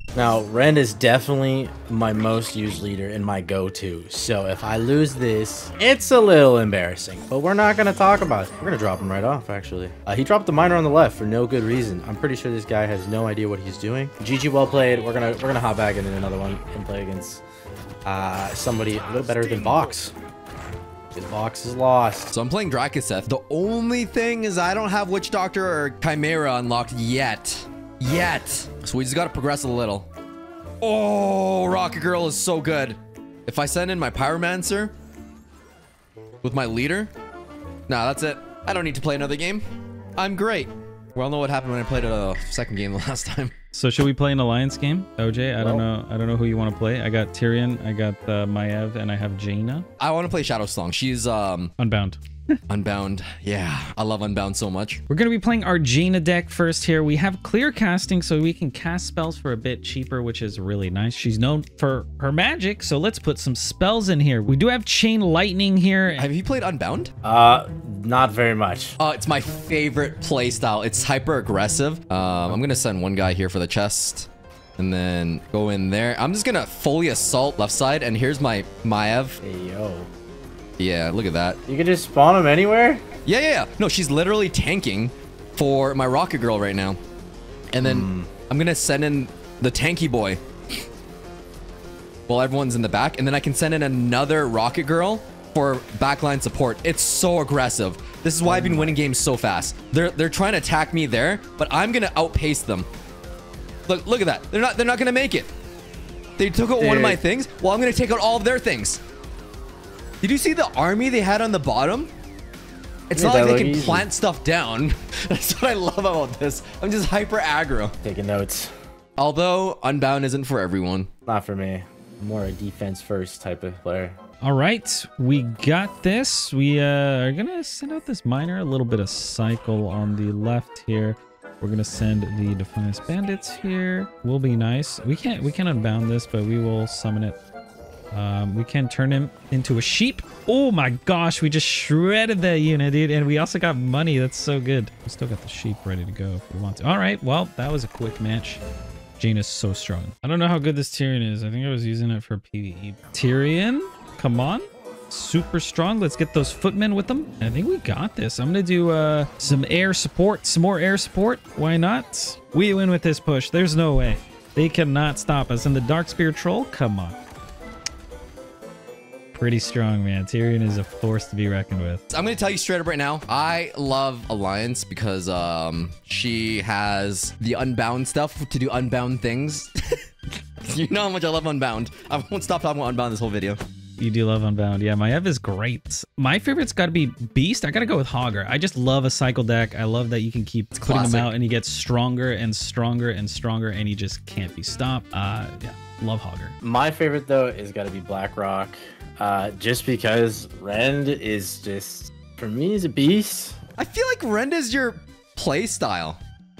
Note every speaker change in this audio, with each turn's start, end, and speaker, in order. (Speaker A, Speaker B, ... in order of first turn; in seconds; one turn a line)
Speaker A: 0.1-17.4
Speaker A: 18.0-20.1
Speaker A: 21.1-22.3
Speaker B: 22.3-30.1
Speaker B: 30.8-34.9
Speaker B: 36.4-37.1
Speaker B: 37.9-39.6
Speaker B: 40.2-43.5
Speaker C: 43.7-49.9
Speaker A: 45.6-45.9
Speaker B: 50.0-51.7
Speaker C: 51.8-52.6
Speaker B: 52.7-55.0
Speaker C: 55.1-66.3
Speaker B: 66.2-67.1
Speaker A: 67.2-69.0
Speaker B: 69.0-79.4
Speaker A: 79.4-80.1
Speaker B: 80.8-81.6
Speaker A: 81.7-83.0
Speaker B: 83.2-87.0
Speaker B: 87.7-90.4
Speaker A: 87.8-88.3
Speaker B: 92.3-102.9
Speaker A: 98.4-99.0
Speaker B: 103.9-105.5
Speaker B: 106.4-109.0
Speaker A: 106.8-107.2
Speaker B: 110.2-112.1
Speaker B: 113.1-117.9
Speaker A: 113.1-114.0
Speaker A: 118.0-118.7
Speaker B: 119.2-121.1
Speaker A: 121.2-124.2
Speaker C: 124.4-137.4
Speaker C: 138.1-148.6
Speaker C: 149.2-167.2
Speaker C: 169.3-172.0
Speaker B: 172.1-179.7
Speaker B: 180.6-183.6
Speaker C: 184.0-196.5
Speaker B: 190.8-191.3
Speaker A: 196.6-203.6
Speaker B: 203.8-206.2